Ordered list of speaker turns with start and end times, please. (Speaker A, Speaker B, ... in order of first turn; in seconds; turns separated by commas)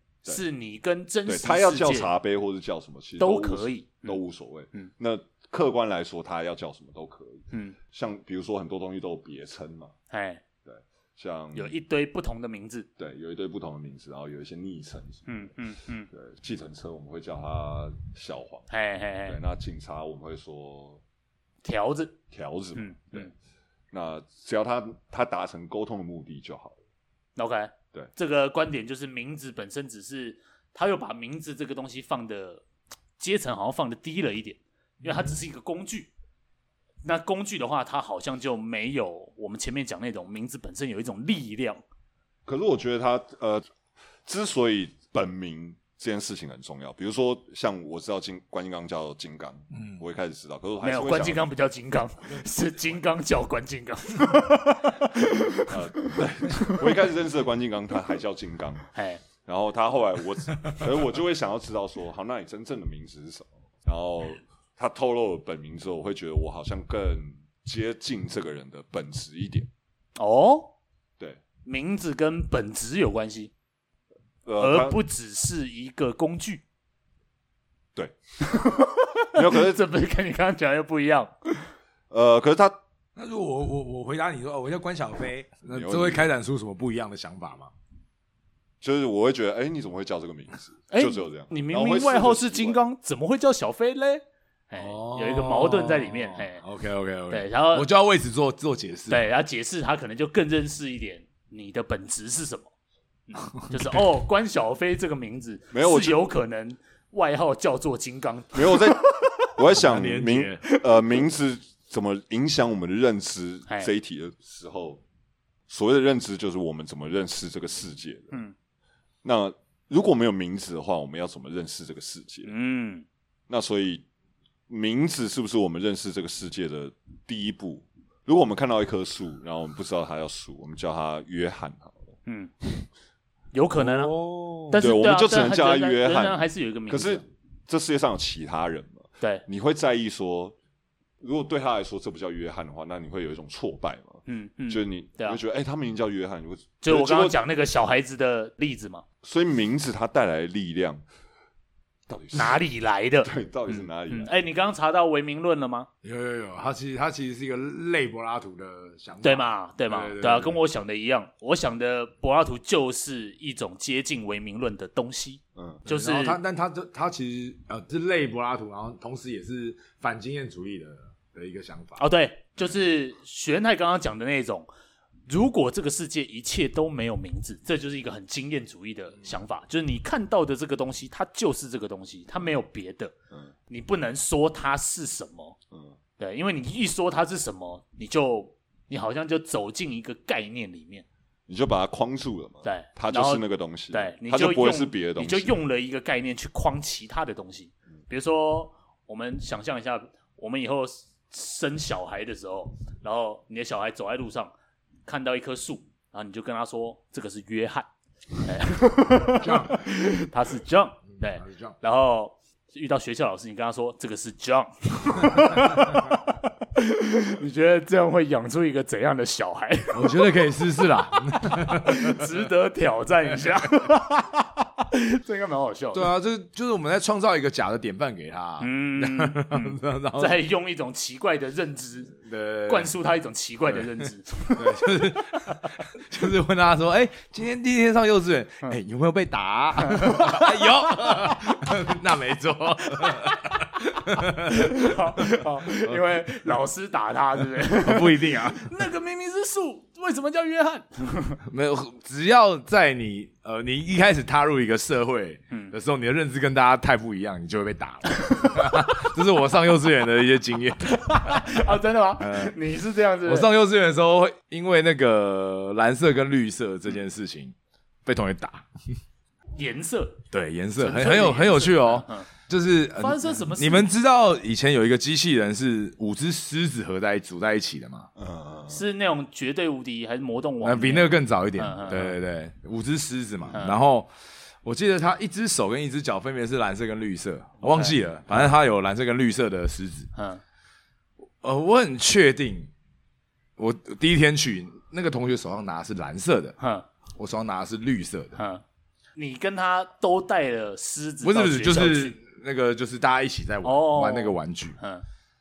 Speaker A: 0.2-2.1, Speaker B: 1.2-9.9, Speaker A: 3.2-4.2, Speaker A: 7.5-7.8, Speaker A: 10.1-10.4, Speaker B: 10.7-11.7, Speaker A: 11.5-12.9, Speaker B: 13.0-15.5, Speaker A: 15.3-16.1, Speaker B: 16.1-18.7, Speaker A: 18.7-19.4, Speaker B: 19.2-21.0, Speaker A: 21.6-22.1, Speaker B: 22.3-23.3, Speaker A: 22.8-23.3, Speaker B: 23.9-26.8, Speaker A: 27.4-32.6, Speaker A: 33.2-36.1, Speaker A: 37.0-41.8, Speaker B: 42.5-43.6, Speaker B: 44.2-51.5, Speaker A: 50.8-55.7, Speaker B: 55.7-69.7, Speaker A: 58.9-59.2, Speaker A: 70.2-70.7, Speaker A: 71.6-73.5, Speaker B: 74.4-75.0, Speaker A: 74.6-76.6, Speaker A: 78.5-81.5, Speaker B: 79.3-79.8, Speaker B: 82.1-82.8, Speaker C: 83.2-87.7, Speaker B: 85.7-86.2, Speaker B: 88.8-92.8, Speaker A: 90.9-96.6, Speaker C: 94.8-99.2, Speaker A: 97.3-97.9, Speaker A: 99.1-102.7, Speaker A: 103.3-108.9, Speaker B: 105.7-106.2, Speaker B: 108.5-115.0, Speaker C: 109.7-110.6, Speaker B: 115.7-118.3, Speaker B: 119.2-122.5, Speaker A: 122.5-123.0, Speaker B: 123.5-124.0, Speaker B: 124.7-132.1, Speaker A: 132.2-132.5, Speaker A: 133.5-134.1, Speaker C: 133.8-134.8, Speaker A: 134.7-137.2, Speaker B: 134.8-140.5, Speaker B: 141.2-147.4, Speaker A: 144.3-145.4, Speaker A: 146.8-149.0, Speaker B: 149.2-151.0, Speaker B: 152.1-152.6, Speaker A: 152.3-155.9, Speaker B: 153.2-154.3, Speaker C: 156.0-160.6, Speaker A: 159.2-166.4, Speaker B: 165.6-165.8, Speaker C: 165.9-172.0, Speaker A: 172.0-174.7, Speaker A: 175.3-183.1, Speaker A: 183.7-185.6, Speaker A: 186.2-191.0, Speaker B: 191.5-195.6, Speaker A: 192.6-204.5, Speaker A: 205.1-207.9, Speaker A: 208.4-220.3, Speaker C: 209.3-209.9, Speaker C: 211.1-211.8, Speaker C: 215.3-215.8, Speaker C: 219.9-222.3, Speaker A: 221.3-226.1, Speaker C: 225.9-230.4, Speaker A: 228.6-235.7, Speaker C: 232.2-232.9, Speaker C: 234.5-246.0, Speaker A: 239.8-241.5, Speaker A: 244.4-251.4, Speaker C: 247.8-248.8, Speaker C: 251.4-260.9, Speaker A: 260.8-263.5, Speaker C: 262.2-262.6, Speaker C: 263.2-268.7, Speaker A: 269.5-270.2, Speaker C: 270.3-278.1, Speaker A: 270.8-272.3, Speaker A: 273.0-273.9, Speaker B: 278.2-278.8, Speaker A: 278.7-282.2, Speaker C: 280.6-284.1, Speaker A: 283.5-283.8, Speaker C: 284.6-290.1, Speaker A: 287.6-288.0, Speaker A: 290.1-290.4, Speaker C: 291.4-292.7, Speaker C: 293.6-296.6, Speaker A: 296.6-296.9, Speaker C: 297.1-298.4, Speaker A: 298.4-298.6, Speaker A: 299.1-302.1, Speaker C: 301.2-304.8, Speaker A: 303.6-305.0